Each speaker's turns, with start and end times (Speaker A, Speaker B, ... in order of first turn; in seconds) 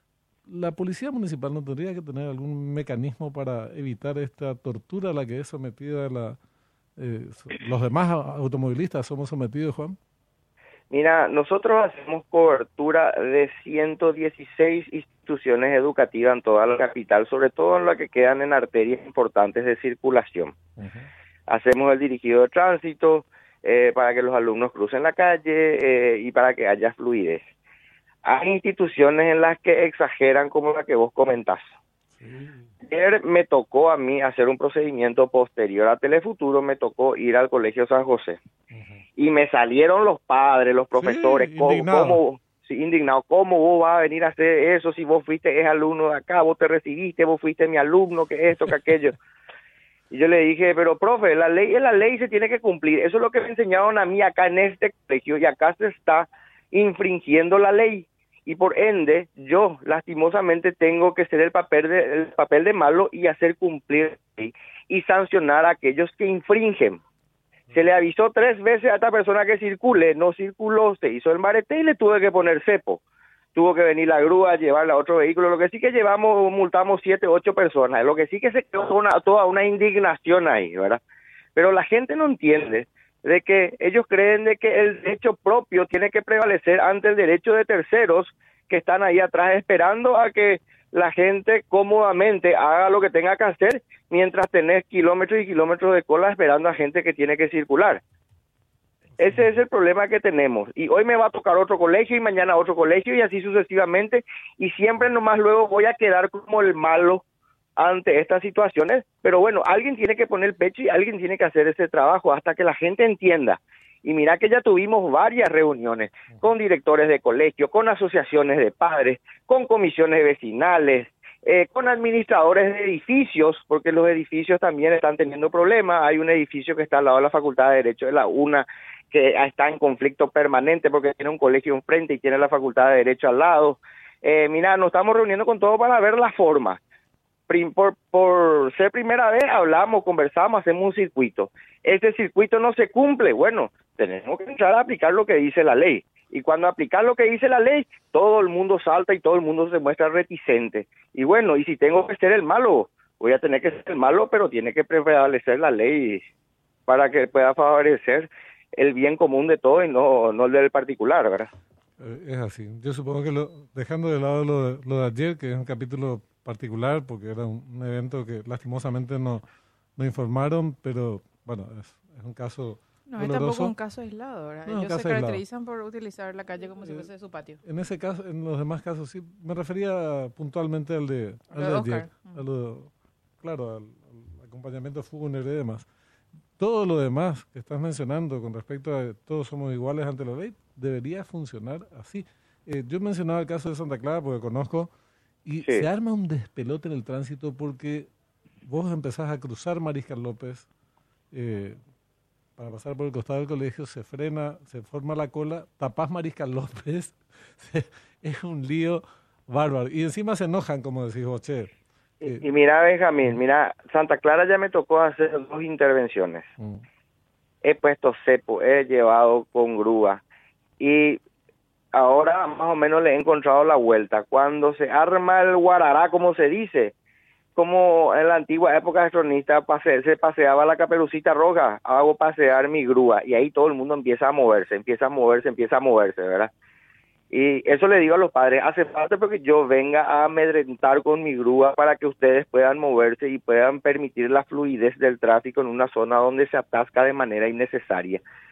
Speaker A: 0.5-6.4, 7.0-10.0, 20.8-21.1, 32.1-32.7, 38.7-39.0, 40.9-42.2, 162.0-169.4, 170.0-173.7, 174.7-175.4, 177.6-185.9, 186.6-194.9, 195.5-198.1, 198.7-200.7, 201.3-201.8, 202.6-212.4, 216.6-216.8
Speaker B: 10.9-20.6, 21.5-27.4, 28.2-31.6, 32.9-38.4, 39.2-49.1, 50.1-67.0, 67.7-73.0, 73.5-81.0, 81.6-98.0, 99.2-107.2, 107.8-136.8, 137.5-156.2, 156.9-161.5, 212.2-216.5, 217.6-220.2, 220.8-221.2, 221.9-226.9, 227.6-236.5, 237.3-248.2
Speaker C: 173.1-177.6, 181.6-182.4